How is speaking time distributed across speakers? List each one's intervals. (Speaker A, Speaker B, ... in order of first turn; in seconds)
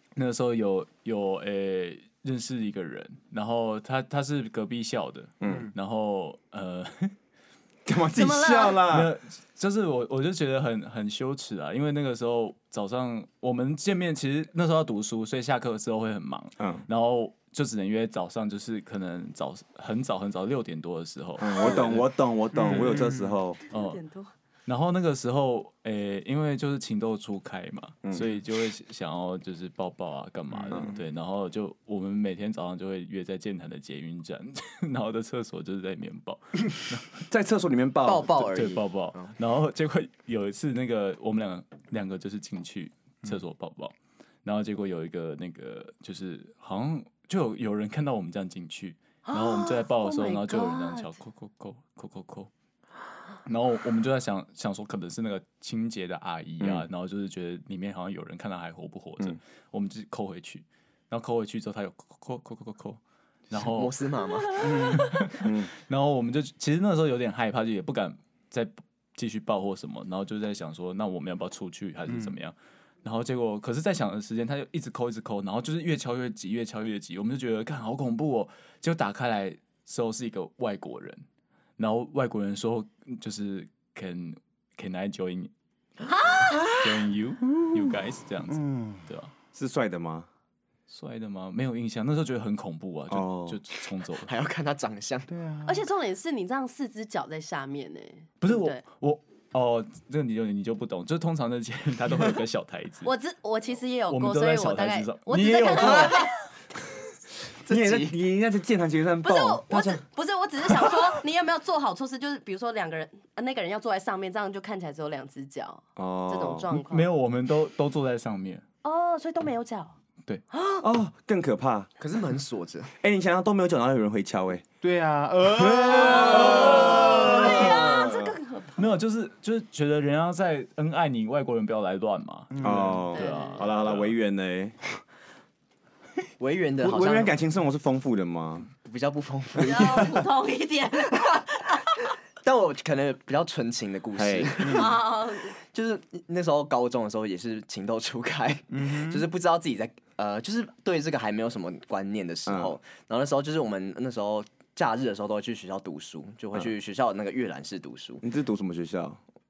Speaker A: 0.2-7.2, 8.9-22.0, 23.7-24.0, 24.7-37.1, 38.5-52.5, 53.5-63.0, 63.5-64.0, 64.6-81.2, 81.8-85.5, 86.8-89.3, 90.9-94.3, 98.4-103.1, 104.1-106.3, 116.7-118.7, 128.8-134.1
Speaker B: 5.4-5.7, 7.9-9.1, 16.6-16.9, 21.4-23.6, 28.0-28.3, 30.7-31.0, 37.3-38.6, 56.6-56.9, 65.4-65.7, 89.5-90.3, 93.1-93.6, 107.7-110.0, 116.0-116.7, 120.8-121.9, 123.0-124.7, 125.5-128.3, 132.6-134.8, 136.8-138.7, 144.1-144.6, 152.5-152.8, 158.2-159.2
Speaker C: 5.5-5.7, 22.5-23.4, 30.6-30.8, 72.1-72.3, 88.5-89.0, 95.3-95.8, 124.8-127.5, 132.5-133.1, 144.6-144.9, 148.7-149.3
Speaker D: 8.1-8.8, 21.6-21.9, 23.7-24.3, 49.3-51.1, 64.5-65.1, 86.1-86.8, 95.7-98.8, 103.0-106.5, 109.2-117.1, 118.8-120.0, 120.5-120.8, 125.9-128.9, 133.1-133.7, 139.6-141.7, 144.7-145.6
Speaker E: 38.0-39.3, 63.5-65.2, 94.2-95.3, 105.8-106.2, 107.7-108.2, 122.0-122.9, 126.8-127.9, 136.4-137.3, 138.8-140.3, 142.4-145.0, 145.6-158.2